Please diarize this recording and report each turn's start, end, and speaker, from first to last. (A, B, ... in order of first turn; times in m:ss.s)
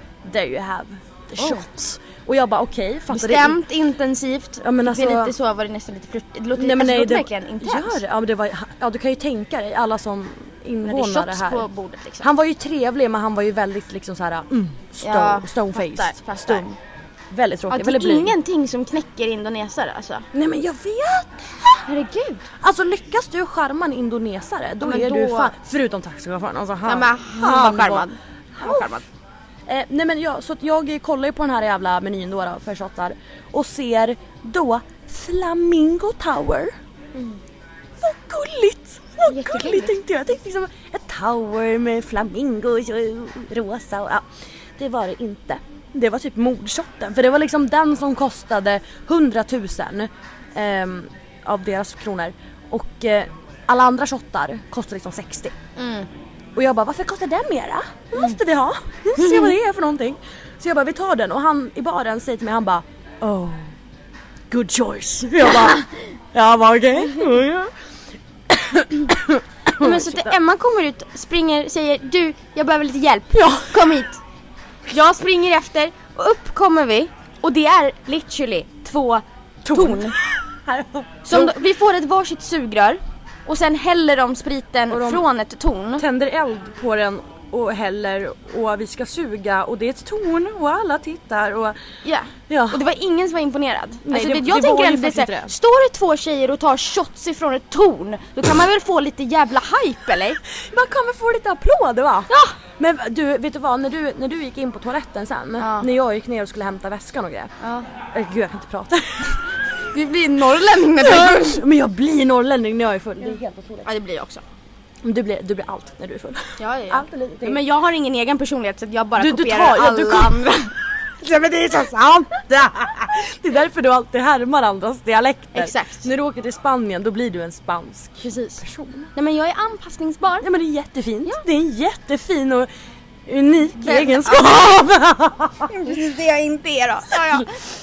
0:00.2-0:03.6 A
0:01.4-0:01.6 B
0:03.1-0:08.0 B
0:04.6-0:05.3 A
0:06.6-0:11.6 A
0:10.8-0:12.3 B
0:12.2-0:16.6 A
0:15.0-0:16.8 B
0:17.3-0:18.3 A
0:17.7-0:20.2 B
0:20.3-0:21.8 A
0:21.9-0:22.5 B
0:22.6-0:28.0 A
0:24.8-0:25.5 B
0:26.8-0:29.0 B
0:28.6-0:28.8 A
0:29.7-0:36.7 A
0:37.1-0:37.4 B
0:38.0-0:44.2 A
0:39.3-0:39.9 B
0:44.8-0:55.5 A
0:55.8-0:56.1 B
0:56.6-1:03.7 A
0:59.2-0:59.5 B
1:04.5-1:07.7 A
1:08.5-1:10.3 A
1:09.8-1:14.2 B
1:13.3-1:13.8 A
1:14.9-1:20.2 B
1:19.6-1:21.6 A
1:21.3-1:26.0 B
1:24.9-1:25.2 A
1:26.0-1:31.8 A
1:32.0-1:40.4 B
1:32.5-1:32.8 A
1:34.0-1:35.5 A
1:40.6-1:47.5 A
1:42.3-1:42.6 B
1:45.6-1:45.9 B
1:47.6-1:47.9 B
1:48.1-1:49.4 A
1:49.9-1:51.6 B
1:51.0-1:53.9 A
1:53.2-1:54.4 B
1:55.0-1:57.6 A
1:56.6-2:00.7 B
1:59.2-2:00.4 A
2:01.2-2:09.1 A
2:05.5-2:06.0 B
2:08.2-2:08.6 B
2:09.1-2:10.4 B
2:10.4-2:12.7 A
2:13.3-2:15.7 A
2:13.8-2:14.7 B
2:15.7-2:17.6 B